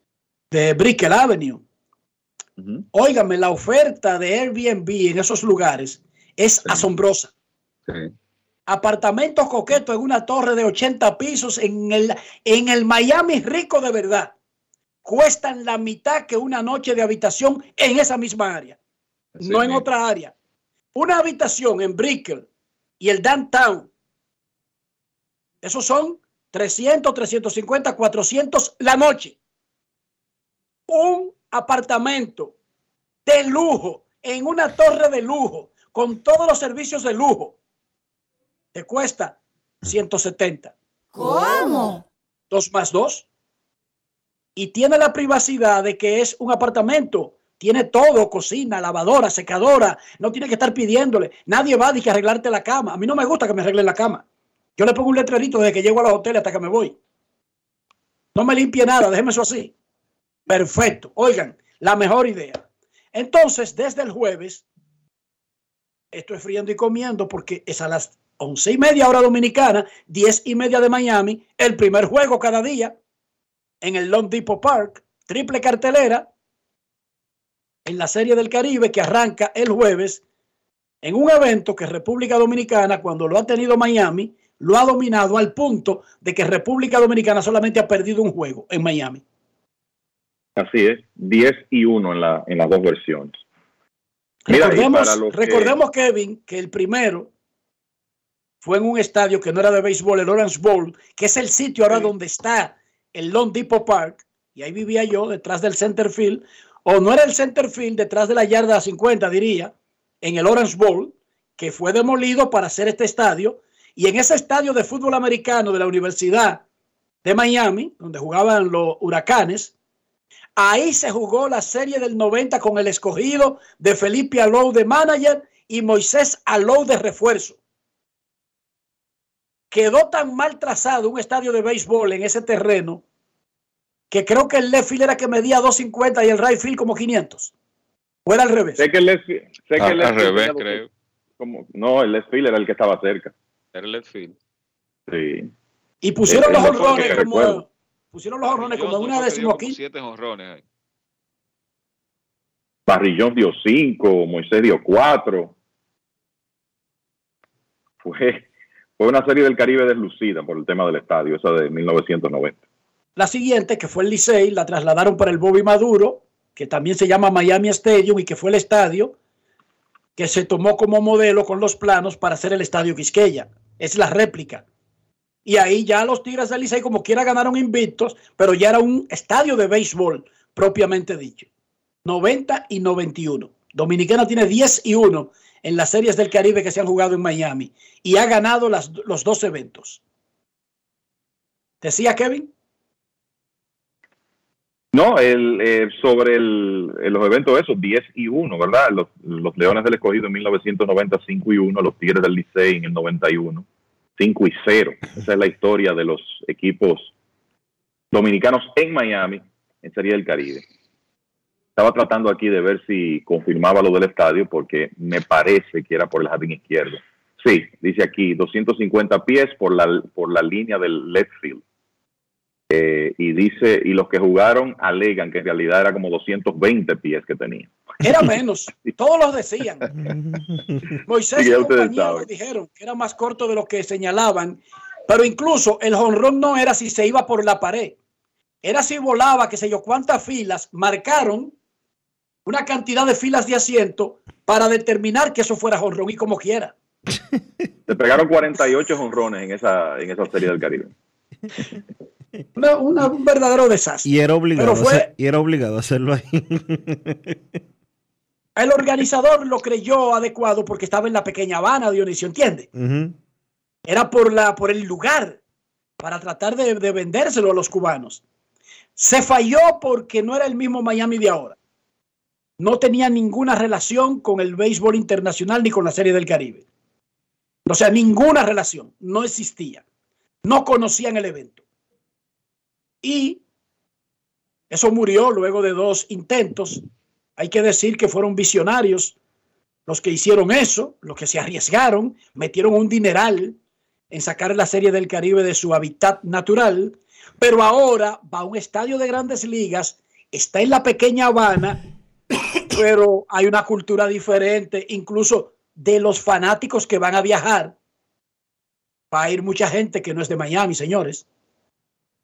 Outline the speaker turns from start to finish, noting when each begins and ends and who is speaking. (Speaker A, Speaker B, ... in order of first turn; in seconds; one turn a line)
Speaker A: 0.5-1.6
Speaker A: 2.9-7.3
Speaker B: 7.9-8.1
Speaker A: 8.7-14.3
Speaker A: 15.0-18.8
Speaker B: 19.4-19.9
Speaker A: 19.4-20.3
Speaker A: 20.9-22.4
Speaker A: 23.0-23.9
Speaker A: 25.6-29.4
Speaker A: 30.9-32.5
Speaker A: 33.2-37.5
Speaker A: 38.7-40.7
Speaker A: 42.5-43.2
Speaker A: 44.5-54.2
Speaker A: 54.8-57.0
Speaker A: 58.3-59.7
Speaker A: 60.5-64.6
Speaker A: 66.1-73.0
Speaker A: 73.8-76.3
Speaker A: 77.8-80.2
Speaker A: 81.0-89.2
Speaker C: 90.5-93.4
Speaker A: 94.5-97.3
Speaker C: 94.5-95.8
Speaker A: 98.6-116.6
Speaker A: 117.2-119.7
Speaker A: 120.5-127.6
Speaker A: 129.7-133.0
Speaker A: 134.1-137.5
Speaker A: 138.2-138.8
Speaker C: 138.8-140.8
Speaker B: 139.8-140.9
Speaker C: 141.4-143.3
Speaker B: 143.7-144.3
Speaker C: 145.1-145.5
Speaker A: 146.0-149.8
Speaker C: 146.3-147.6
Speaker B: 146.4-147.3
Speaker B: 148.6-150.6
Speaker C: 152.9-155.5
Speaker C: 158.0-158.5
Speaker C: 159.0-162.6
Speaker A: 163.2-169.1
Speaker A: 170.2-174.6
Speaker A: 175.4-181.5
Speaker A: 182.0-190.0
Speaker A: 191.8-192.5
Speaker C: 194.9-203.6
Speaker C: 204.2-207.1
Speaker C: 208.1-210.6
Speaker C: 211.8-221.6
Speaker C: 222.7-227.7
Speaker A: 228.0-229.9
Speaker D: 229.9-230.8
Speaker A: 231.1-238.0
Speaker C: 231.3-232.3
Speaker A: 238.6-241.5
Speaker A: 242.4-246.7
Speaker C: 247.9-250.9
Speaker A: 252.6-255.1
Speaker D: 254.0-257.4
Speaker A: 258.6-262.7
Speaker D: 262.7-263.1
Speaker A: 263.9-265.4
Speaker A: 266.0-268.2
Speaker A: 268.9-271.6
Speaker A: 272.6-276.6
Speaker A: 277.6-279.8
Speaker A: 280.4-281.6
Speaker A: 283.0-283.4
Speaker A: 284.7-286.8
Speaker A: 287.4-289.1
Speaker A: 289.9-293.6
Speaker A: 294.1-301.8
Speaker A: 302.7-307.7
Speaker A: 309.1-311.2